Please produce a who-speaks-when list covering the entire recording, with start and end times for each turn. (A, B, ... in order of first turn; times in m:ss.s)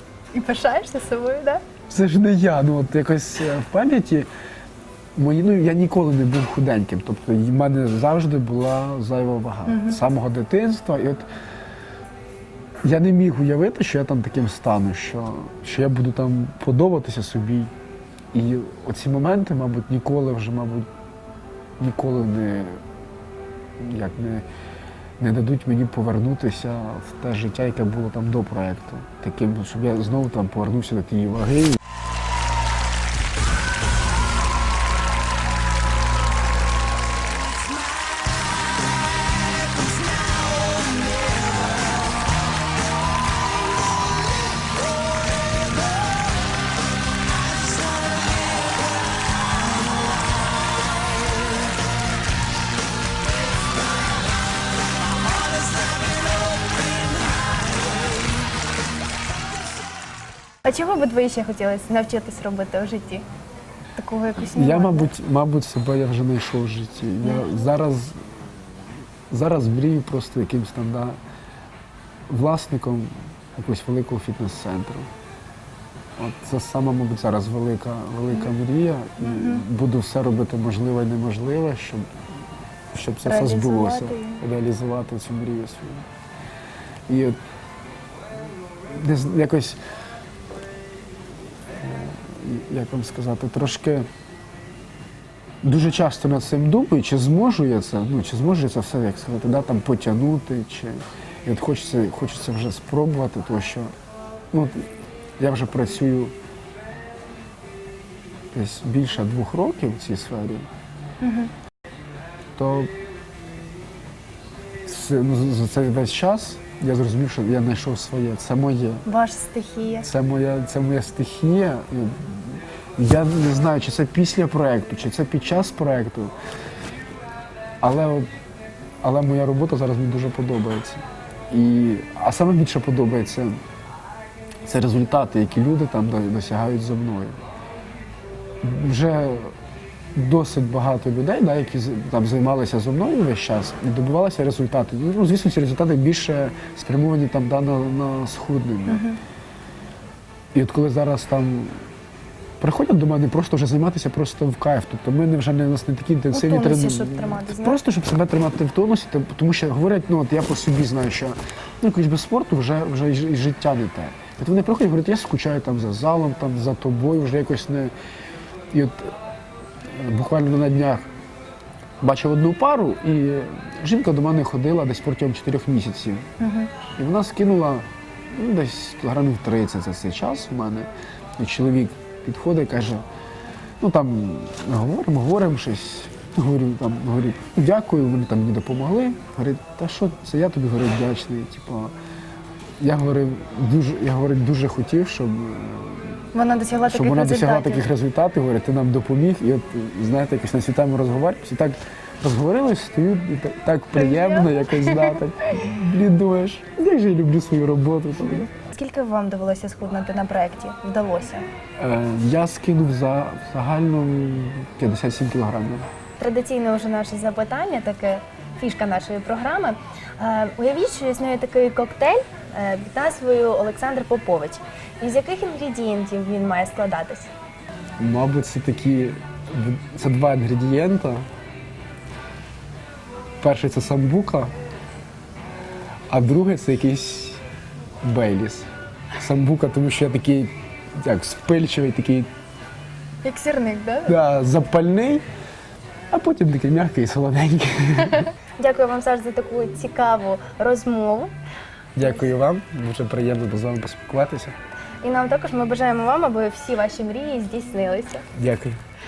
0:00.3-0:01.6 A
0:01.9-0:04.3 B
0:05.2-0:11.2 B
0:09.7-0:10.0 A
0:12.8-0:17.7 B
0:18.3-0:20.9 B
0:21.8-0:22.8 B
0:23.8-0:24.4 B
0:25.2-0:31.8 B
1:00.6-1:03.2 A
1:04.0-1:05.1 A
1:04.4-1:08.2 B
1:09.3-1:11.2 B
1:12.3-1:15.1 B
1:16.2-1:22.1 B
1:19.2-1:19.6 A
1:22.9-1:26.0 B
1:23.2-1:24.4 A
1:27.1-1:27.4 B
1:28.9-1:29.8 B
1:31.8-1:34.1 B
1:35.6-1:43.9 B
1:44.5-1:44.9 B
1:45.4-1:46.3 B
1:48.5-1:50.7 B
1:51.2-1:51.5 A
1:52.6-1:52.9 B
1:54.8-1:59.0 B
1:59.0-2:00.1 A
2:00.0-2:06.3 B
2:07.8-2:08.3 B
2:09.0-2:13.6 B
2:14.6-2:17.4 B
2:18.6-2:19.5 B
2:20.1-2:29.0 B
2:28.9-2:29.2 A
2:30.5-2:31.8 B
2:32.6-2:47.9 B
2:36.3-2:37.8 A
2:48.7-2:49.1 B
2:49.9-2:51.0 B
2:52.0-2:56.3 B
2:56.4-2:56.7 A
2:57.0-3:03.0 B
3:03.8-3:11.9 B
3:12.8-3:16.3 B
3:16.3-3:17.8 A
3:16.9-3:28.5 B
3:23.9-3:25.2 A
3:28.7-3:31.5 A
3:31.8-3:35.9 B
3:36.2-3:47.3 A
3:48.0-3:51.2 B
3:53.4-3:54.5 B
3:56.1-3:57.4 B
3:58.0-4:02.3 B
4:03.2-4:04.2 A
4:04.1-4:05.2 B
4:06.1-4:08.3 B
4:08.6-4:11.3 A
4:12.0-4:14.5 B
4:15.0-4:18.2 A
4:18.3-4:18.8 B